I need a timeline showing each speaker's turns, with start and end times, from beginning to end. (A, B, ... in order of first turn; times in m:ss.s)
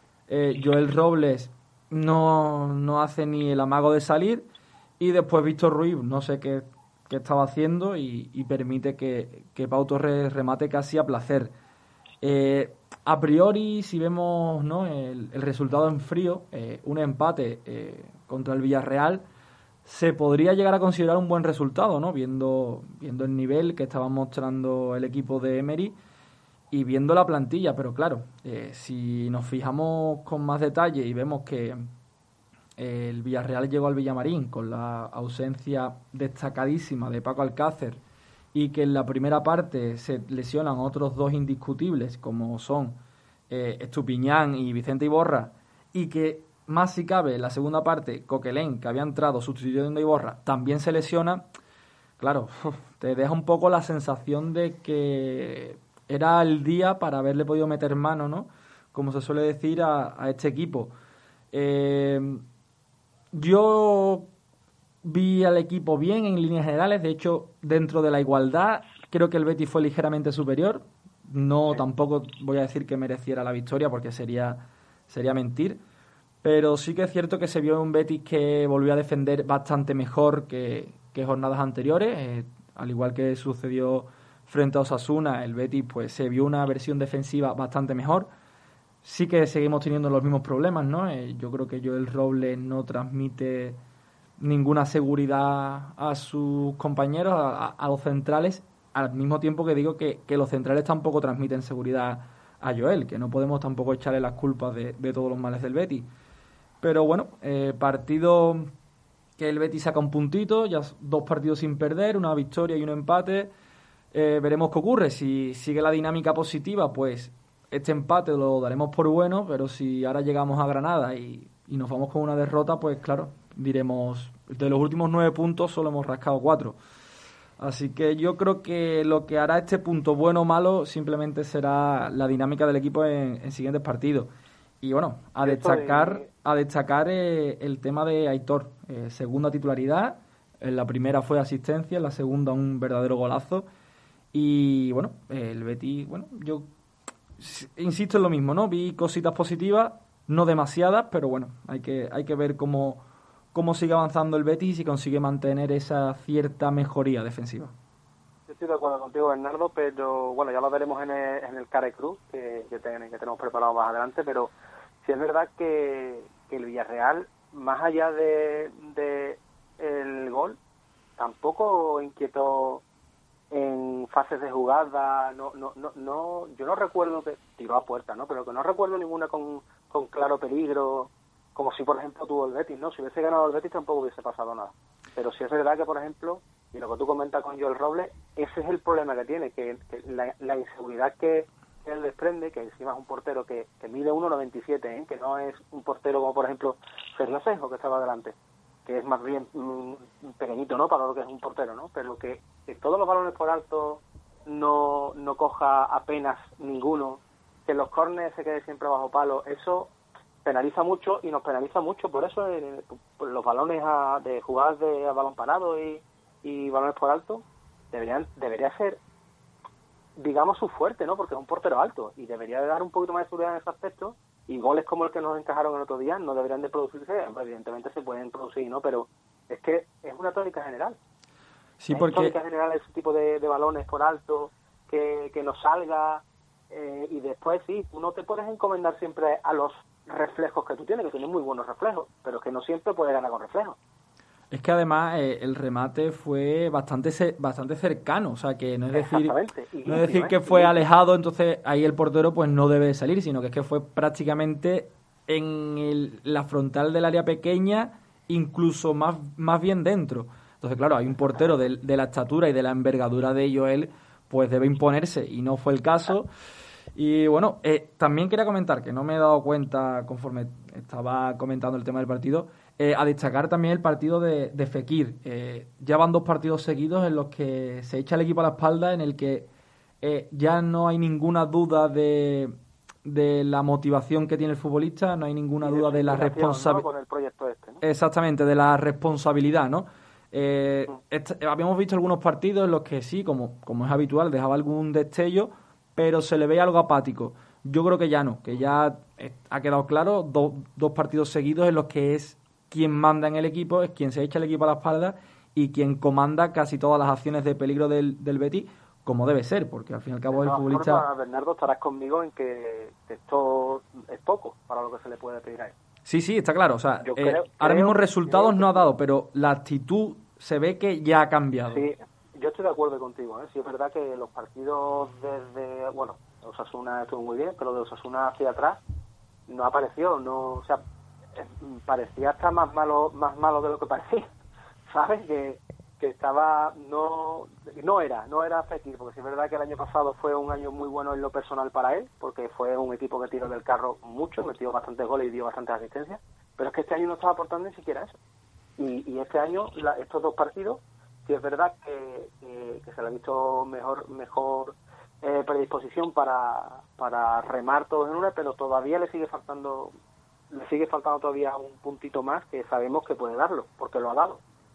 0:00.3-0:04.5 A
0:05.0-0:11.5 A
0:12.2-0:19.2 A
0:19.8-0:25.9 A
0:26.7-0:31.9 A
0:32.8-0:38.0 A
0:38.5-0:43.0 A
0:43.5-0:51.4 A
0:52.2-1:00.9 A
1:01.5-1:02.4 A
1:03.3-1:04.3 A
1:05.0-1:15.8 A
1:16.4-1:28.3 A
1:29.0-1:33.8 A
1:34.4-1:46.1 A
1:46.8-1:48.7 A
1:49.4-1:53.5 A
1:54.1-2:06.8 A
2:07.6-2:14.3 A
2:14.8-2:23.6 A
2:15.4-2:16.3 B
2:24.3-2:26.7 A
2:27.4-2:33.0 A
2:33.5-2:37.7 A
2:38.5-2:44.5 B
2:45.0-2:50.6 B
2:51.2-2:52.8 B
2:53.5-3:18.3 B
3:18.8-3:29.9 B
3:30.4-3:39.0 B
3:40.2-3:51.0 B
3:51.8-3:52.4 A
3:51.9-4:03.8 B
4:04.5-4:09.4 A
4:08.9-4:10.8 B
4:09.9-4:26.3 A
4:27.0-4:39.5 A
4:40.0-4:46.8 A
4:45.6-4:47.8 B
4:47.8-5:11.0 A
5:10.3-5:15.7 B
5:16.0-5:21.9 A
5:17.0-5:18.8 B
5:21.7-5:28.8 B
5:29.5-5:30.8 B
5:31.4-5:34.2 B
5:34.9-5:48.1 B
5:48.8-5:59.9 B
6:00.5-6:04.4 B